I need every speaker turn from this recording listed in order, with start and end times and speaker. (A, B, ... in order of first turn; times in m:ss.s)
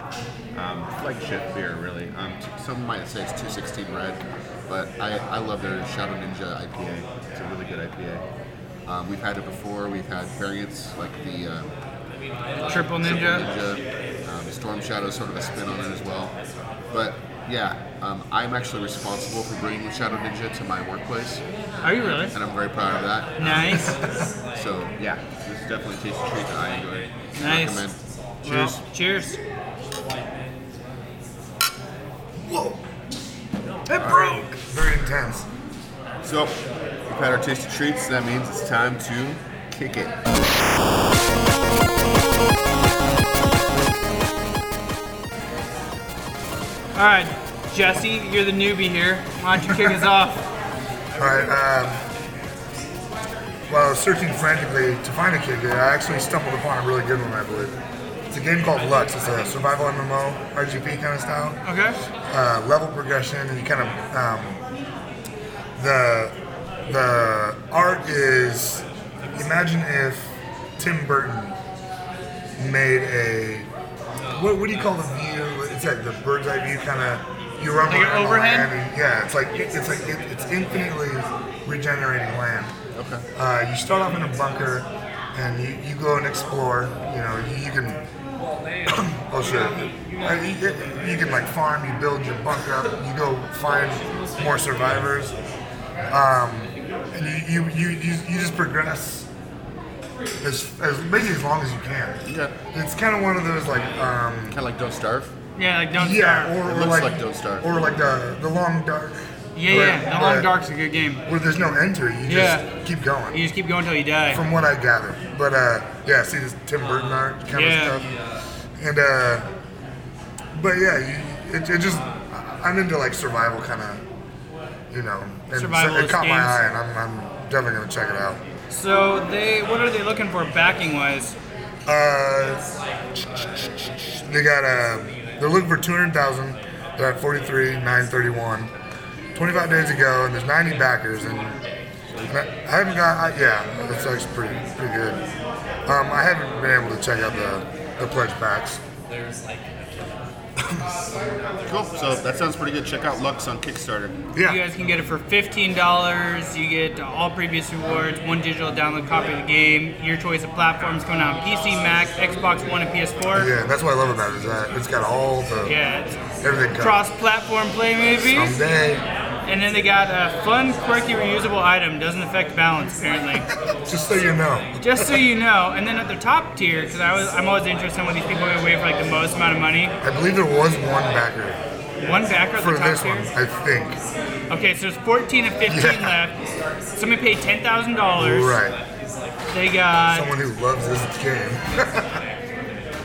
0:00.5-0:08.2 A
0:08.8-0:11.7 A
0:12.6-0:16.3 A
0:12.7-0:13.4 B
0:16.9-0:21.4 A
0:21.8-0:22.3 B
0:22.3-0:23.8 A
0:23.4-0:24.0 B
0:23.8-0:24.3 C
0:24.5-0:28.8 A
0:27.4-0:27.8 B
0:28.4-0:29.4 B
0:32.4-0:32.8 C
0:33.9-0:35.5 C
0:34.0-0:34.4 A
0:34.1-0:34.4 B
0:36.2-0:36.5 A
0:37.1-0:40.1 A
0:46.9-0:50.4 B
0:49.7-0:49.9 C
0:51.2-0:52.0 C
0:53.7-0:57.8 C
0:58.3-1:01.6 C
1:01.6-1:02.0 B
1:02.3-1:04.6 C
1:05.8-1:11.6 C
1:12.6-1:13.7 C
1:14.3-1:22.7 C
1:17.9-1:18.7 B
1:22.9-1:23.2 A
1:23.4-1:28.0 C
1:28.8-1:35.4 C
1:36.1-1:39.3 C
1:40.4-1:44.6 C
1:42.2-1:42.5 A
1:44.5-1:45.3 A
1:45.6-1:46.5 B
1:46.0-1:50.5 C
1:46.6-1:47.6 A
1:49.6-1:51.2 B
1:51.3-1:53.4 C
1:52.3-1:52.6 B
1:53.3-1:54.4 B
1:54.3-1:58.0 C
1:57.5-1:58.0 B
1:58.8-1:59.5 C
2:00.5-2:04.0 C
2:04.9-2:08.4 C
2:05.5-2:06.6 B
2:08.7-2:11.4 B
2:11.8-2:12.6 C
2:13.2-2:18.7 C
2:19.3-2:21.6 C
2:22.3-2:25.2 C
2:25.8-2:28.8 C
2:30.6-2:30.9 C
2:31.7-2:34.1 A
2:34.3-2:34.6 C
2:34.4-2:43.5 B
2:43.3-2:45.7 C
2:45.6-2:46.2 B
2:46.4-2:47.0 C
2:46.8-2:48.6 B
2:48.3-2:49.0 C
2:49.4-2:53.5 B
2:53.7-2:55.2 C
2:54.8-2:59.9 B
3:00.0-3:01.6 C
3:02.0-3:03.3 B
3:02.6-3:04.0 C
3:04.5-3:06.4 B
3:05.7-3:06.2 C
3:07.0-3:08.6 B
3:08.2-3:08.8 C
3:09.5-3:10.3 B
3:10.1-3:12.2 C